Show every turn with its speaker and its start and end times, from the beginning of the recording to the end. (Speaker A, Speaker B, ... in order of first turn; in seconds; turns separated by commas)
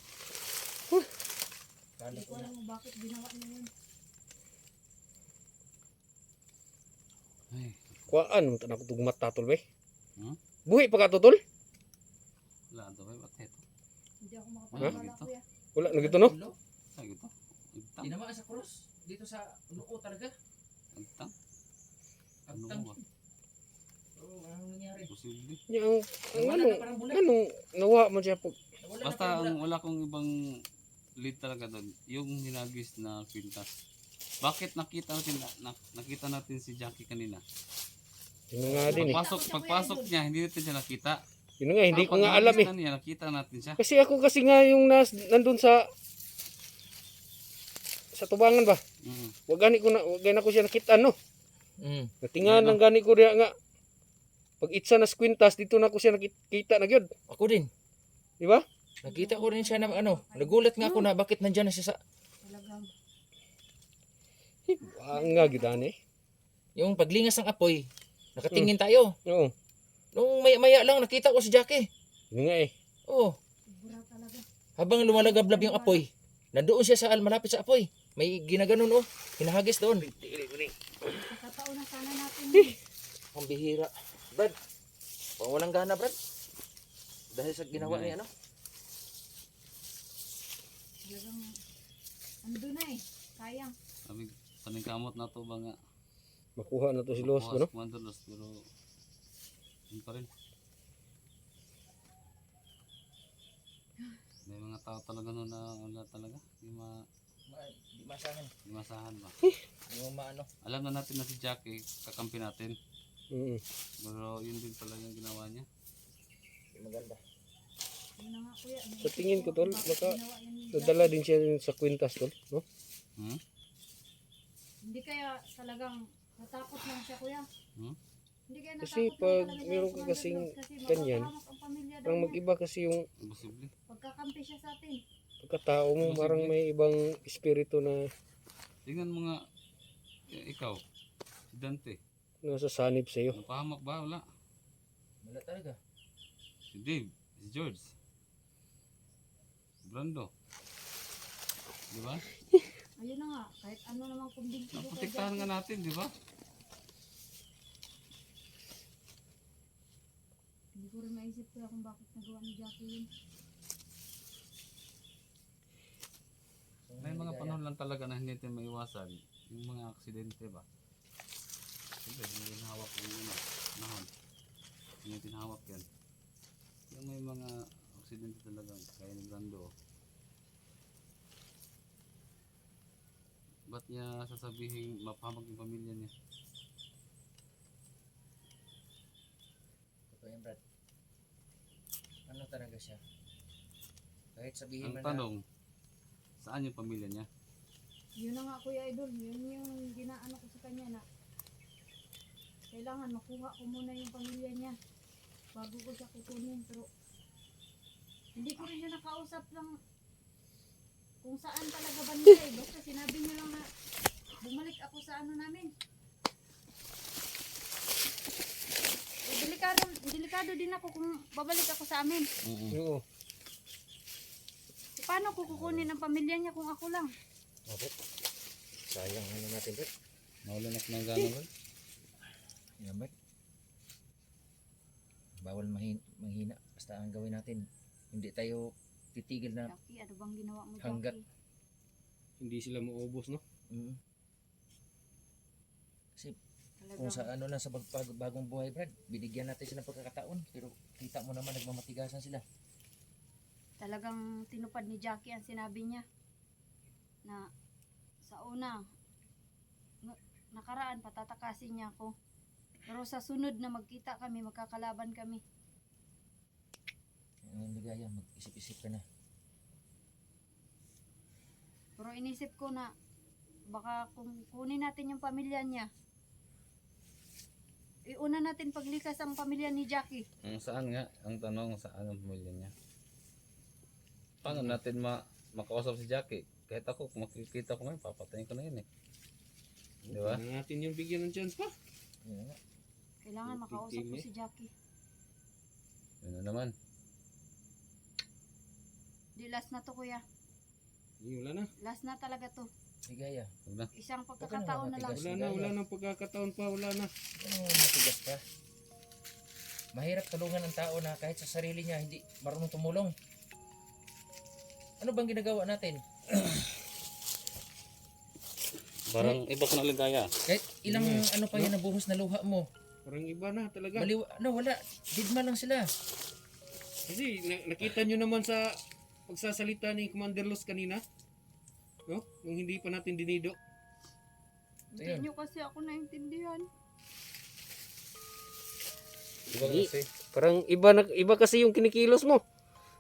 Speaker A: 2.0-2.5, Speaker B: 2.1-3.7, Speaker C: 7.5-8.0, Speaker D: 8.1-9.6, Speaker D: 10.7-11.4, Speaker C: 12.7-13.6, Speaker B: 14.2-15.4, Speaker C: 14.7-15.3, Speaker D: 15.8-16.4, Speaker A: 15.8-16.6, Speaker C: 17.0-18.1, Speaker A: 18.0-20.3, Speaker C: 21.0-21.3, Speaker A: 22.5-23.0, Speaker C: 22.5-23.0, Speaker A: 24.2-25.1, Speaker C: 25.1-25.6, Speaker D: 25.7-28.6, Speaker A: 26.3-27.2, Speaker A: 28.8-29.6, Speaker C: 29.0-30.3, Speaker C: 31.2-33.7, Speaker C: 34.4-37.4, Speaker D: 38.5-39.2, Speaker C: 38.6-41.2, Speaker B: 38.9-40.1, Speaker D: 41.6-42.7, Speaker C: 41.9-43.8, Speaker B: 41.9-42.3, Speaker D: 43.8-45.9, Speaker D: 48.1-48.8, Speaker C: 49.0-49.4, Speaker D: 49.5-51.1, Speaker A: 51.8-52.1, Speaker D: 52.2-53.5, Speaker C: 52.4-52.8, Speaker D: 54.6-57.1, Speaker A: 57.3-57.7, Speaker A: 59.0-62.0, Speaker B: 59.0-61.1, Speaker B: 62.4-62.9, Speaker D: 64.7-66.0, Speaker B: 65.1-65.9, Speaker A: 66.8-67.8, Speaker A: 68.4-69.1, Speaker D: 69.3-69.5, Speaker A: 70.2-71.9, Speaker D: 72.3-72.7, Speaker B: 73.7-74.4, Speaker A: 74.8-80.5, Speaker B: 75.0-76.0, Speaker D: 80.3-80.6, Speaker B: 81.1-82.8, Speaker A: 83.3-84.5, Speaker A: 85.4-86.2, Speaker A: 87.3-88.3, Speaker C: 87.8-88.2, Speaker B: 91.0-91.5, Speaker B: 92.5-93.7, Speaker C: 94.1-95.8, Speaker D: 96.6-97.7, Speaker C: 97.2-98.6, Speaker C: 99.9-100.3, Speaker C: 104.5-106.9, Speaker A: 107.5-108.5, Speaker C: 108.7-109.3, Speaker A: 109.9-110.5, Speaker C: 110.7-112.8, Speaker D: 113.3-113.6, Speaker C: 114.0-115.7, Speaker A: 116.8-117.2, Speaker B: 118.2-121.2, Speaker D: 119.0-120.2, Speaker D: 120.7-122.7, Speaker B: 124.8-127.5, Speaker B: 128.5-132.4, Speaker D: 128.8-131.3, Speaker D: 132.1-133.1, Speaker C: 133.2-133.7, Speaker B: 133.9-135.0, Speaker D: 135.4-138.1, Speaker C: 136.0-136.5, Speaker C: 138.8-139.4, Speaker C: 140.4-140.8, Speaker C: 141.5-142.0, Speaker D: 142.4-143.4, Speaker C: 143.3-144.2, Speaker A: 145.2-145.8, Speaker C: 146.7-147.9, Speaker C: 149.9-150.3, Speaker C: 151.9-152.3, Speaker B: 153.0-155.5, Speaker C: 154.7-156.1, Speaker B: 160.8-163.1, Speaker A: 166.9-167.6, Speaker C: 167.0-170.7, Speaker C: 172.0-174.1, Speaker C: 175.0-175.9, Speaker C: 176.9-179.7, Speaker C: 183.7-186.1, Speaker A: 190.1-190.6, Speaker A: 192.3-193.0, Speaker A: 194.4-195.3, Speaker C: 194.8-195.4, Speaker C: 196.4-197.3, Speaker B: 198.2-201.0, Speaker B: 202.7-204.8, Speaker B: 205.6-206.9, Speaker B: 208.4-209.7, Speaker B: 211.2-213.7, Speaker B: 214.4-215.7, Speaker B: 219.3-222.3, Speaker C: 222.4-222.8, Speaker D: 222.7-223.0, Speaker B: 225.0-227.1, Speaker C: 225.5-225.8, Speaker A: 228.9-229.9, Speaker C: 230.4-231.5, Speaker A: 232.8-233.1, Speaker A: 235.4-239.7, Speaker B: 239.7-241.2, Speaker A: 240.8-241.1, Speaker D: 242.4-243.4, Speaker A: 243.7-244.0, Speaker B: 246.8-247.3, Speaker A: 247.0-252.4, Speaker B: 253.8-256.0, Speaker B: 258.3-258.8, Speaker B: 260.0-262.1, Speaker B: 262.9-265.4, Speaker A: 267.5-269.0, Speaker B: 272.0-272.9, Speaker B: 273.7-275.9, Speaker B: 278.1-280.2, Speaker C: 280.4-282.7, Speaker C: 284.4-288.9, Speaker D: 290.0-291.7, Speaker C: 290.1-290.4, Speaker A: 292.2-292.6, Speaker B: 293.2-294.7, Speaker D: 293.5-294.3, Speaker C: 296.2-296.7, Speaker B: 299.4-300.2, Speaker D: 301.2-301.7, Speaker B: 301.8-302.7, Speaker A: 303.1-303.5, Speaker B: 304.0-305.2, Speaker A: 304.4-305.7, Speaker D: 305.1-307.1, Speaker A: 307.4-308.4, Speaker A: 309.9-313.1, Speaker A: 315.0-316.0, Speaker C: 319.1-320.3, Speaker A: 320.5-322.7, Speaker D: 320.9-321.8, Speaker D: 323.1-324.1, Speaker A: 323.9-325.9, Speaker D: 327.1-328.6, Speaker D: 329.3-331.0, Speaker D: 332.1-333.6, Speaker B: 334.9-336.6, Speaker A: 335.0-335.3, Speaker C: 339.5-340.1, Speaker D: 339.6-342.4